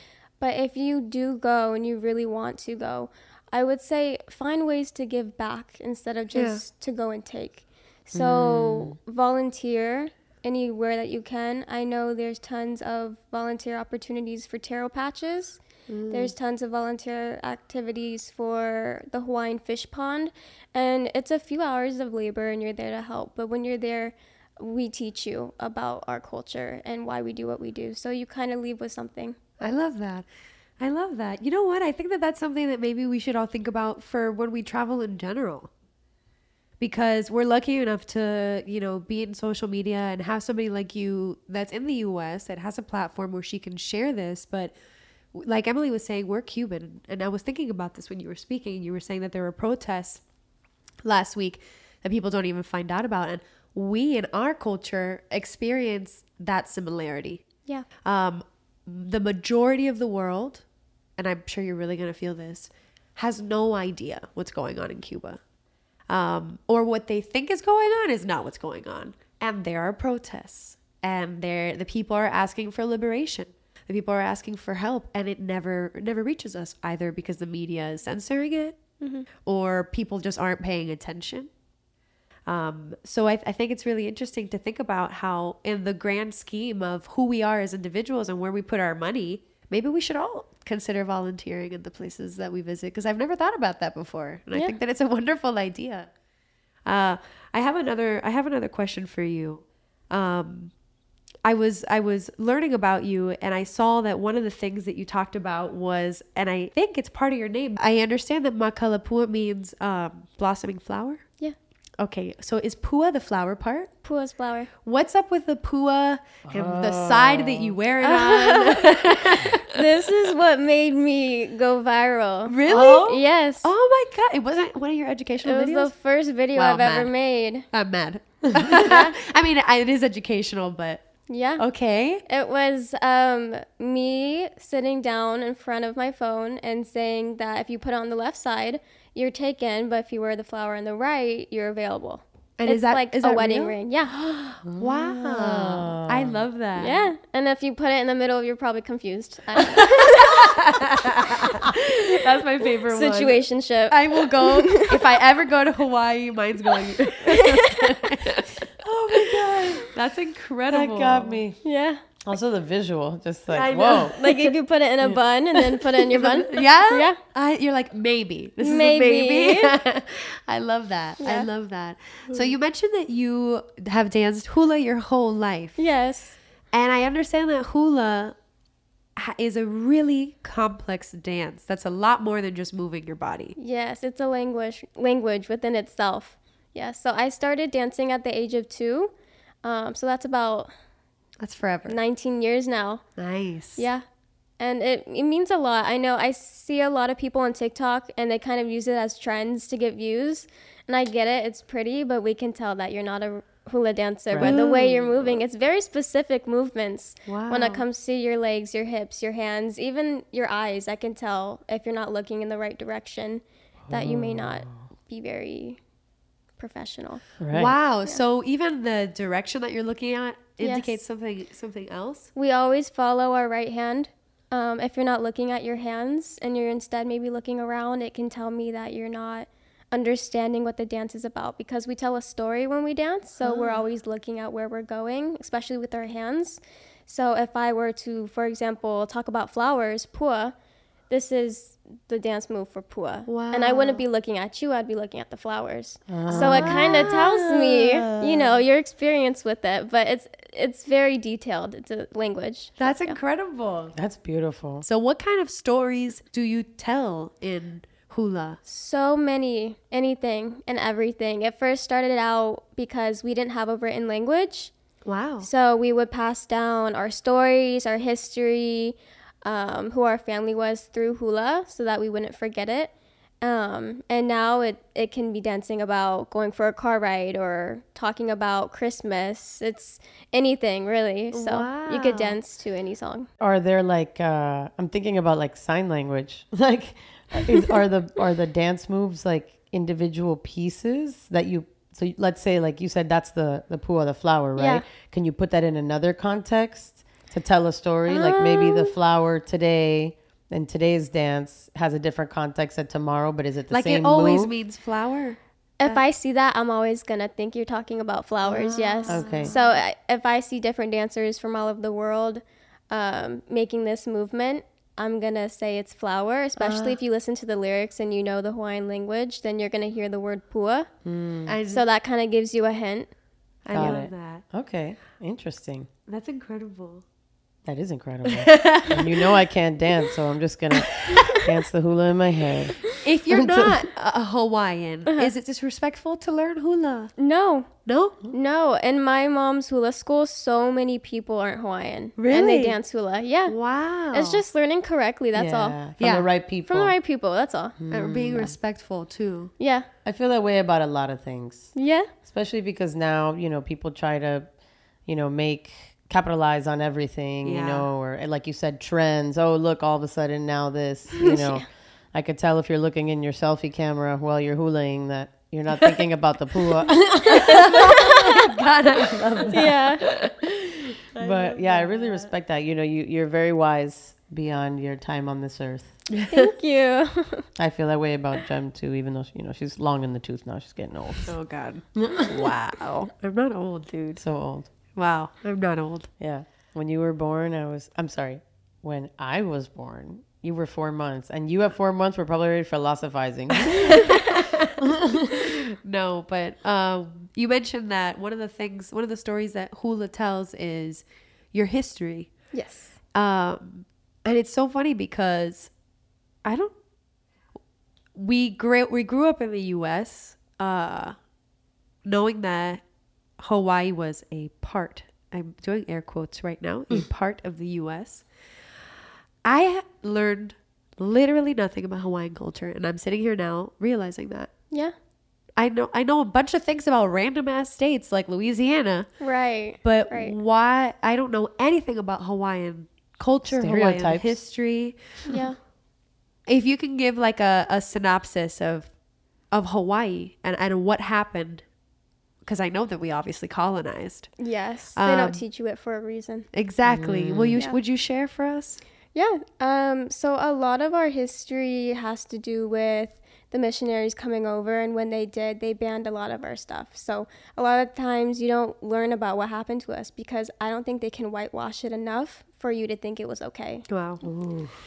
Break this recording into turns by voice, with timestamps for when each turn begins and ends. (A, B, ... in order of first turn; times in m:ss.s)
0:00.4-0:29.4 A
0:06.3-0:06.6 B
0:08.1-0:09.0 C
0:15.9-0:16.3 B
0:29.6-0:30.3 B
0:30.8-0:35.7 B
0:36.8-0:44.7 B
0:45.3-0:50.2 B
0:51.0-0:57.4 B
0:58.0-1:00.6 B
1:01.2-1:05.4 B
1:06.1-1:18.8 B
1:19.0-1:19.2 A
1:19.4-1:21.5 B
1:22.5-1:36.1 B
1:36.8-1:40.7 B
1:41.4-1:51.3 B
1:52.0-1:53.9 B
1:54.0-1:54.7 A
1:54.8-1:59.6 B
1:56.4-1:57.8 C
1:58.0-1:58.8 A
1:59.7-2:03.7 A
2:02.5-2:05.9 B
2:02.7-2:03.0 C
2:05.4-2:07.7 A
2:06.5-2:07.1 B
2:07.7-2:12.2 B
2:08.7-2:09.1 A
2:11.3-2:11.6 A
2:12.2-2:24.1 A
2:22.6-2:23.7 B
2:24.1-2:26.4 C
2:24.8-2:27.0 B
2:26.8-2:30.3 A
2:29.7-2:38.4 B
2:32.9-2:35.0 A
2:37.3-2:37.9 A
2:38.9-2:39.8 C
2:39.1-2:41.4 B
2:40.7-2:41.6 C
2:41.6-2:42.0 A
2:42.2-2:44.1 C
2:43.5-2:44.5 B
2:44.2-2:47.2 A
2:46.1-2:55.8 B
2:48.6-2:49.7 A
2:51.2-2:51.5 A
2:55.8-2:56.4 A
2:56.7-2:58.4 B
2:59.2-3:03.5 B
3:03.6-3:10.7 A
3:11.4-3:12.0 B
3:11.8-3:13.0 A
3:13.2-3:13.8 B
3:13.8-3:14.0 A
3:14.6-3:35.8 A
3:24.3-3:24.6 C
3:24.4-3:25.4 B
3:27.2-3:27.8 B
3:33.8-3:34.9 C
3:36.6-3:37.2 A
3:37.4-3:37.7 C
3:37.5-3:42.3 B
3:40.6-3:40.9 A
3:42.3-4:00.5 A
3:53.4-3:53.8 B
4:01.1-4:13.2 A
4:03.3-4:04.0 B
4:06.1-4:07.2 C
4:06.3-4:07.2 B
4:07.7-4:08.6 C
4:12.8-4:13.9 B
4:13.9-4:14.8 C
4:14.8-4:18.6 B
4:18.6-4:24.7 A
4:25.0-4:25.5 B
4:25.4-4:43.3 A
4:41.3-4:42.4 B
4:43.4-5:04.5 C
4:54.6-4:54.8 A
4:58.1-4:58.9 A
5:03.7-5:06.0 B
5:05.8-5:20.9 A
5:08.5-5:09.7 B
5:09.0-5:09.5 C
5:16.6-5:17.0 C
5:21.0-5:21.5 C
5:21.5-5:21.8 B
5:21.7-5:23.1 A
5:23.6-5:24.4 B
5:23.7-5:25.9 C
5:26.1-5:27.0 B
5:27.6-5:32.8 C
5:28.2-5:29.2 B
5:33.0-5:37.1 B
5:33.3-5:33.8 C
5:37.2-5:45.8 A
5:37.8-5:38.2 B
5:42.2-5:42.7 C
5:42.3-5:42.7 B
5:43.5-5:44.4 B
5:45.3-5:47.0 C
5:46.0-5:46.3 B
5:46.7-5:47.8 A
5:47.8-5:48.6 C
5:47.9-5:49.5 B
5:49.6-5:49.9 A
5:50.0-5:54.5 C
5:51.7-5:52.1 A
5:55.0-6:07.6 C
5:57.4-5:57.9 B
6:01.2-6:01.6 A
6:07.4-6:10.3 B
6:09.5-6:10.0 A
6:10.9-6:12.3 B
6:11.2-6:15.9 C
6:16.1-6:16.5 B
6:16.3-6:17.4 A
6:17.6-6:21.3 C
6:21.2-6:24.2 B
6:21.9-6:22.5 C
6:24.2-6:24.7 C
6:24.9-6:26.1 B
6:26.2-6:34.0 C
6:34.8-6:35.6 C
6:35.8-6:42.4 B
6:42.5-6:43.0 A
6:43.1-6:45.7 B
6:46.4-6:46.8 B
6:48.2-6:51.2 B
6:52.0-6:52.8 B
6:53.4-6:58.3 B
6:59.4-7:04.5 B
7:05.6-7:09.1 B
7:09.2-7:10.4 A
7:09.8-7:15.4 B
7:13.4-7:14.3 C
7:15.3-7:15.6 A
7:16.4-7:18.9 B
7:19.5-7:21.6 B
7:22.4-7:24.3 B
7:24.4-7:26.5 A
7:25.0-7:25.4 B
7:26.5-7:28.8 B
7:26.8-7:27.6 C
7:29.1-7:43.8 A
7:43.9-7:44.2 B
7:44.2-7:44.7 C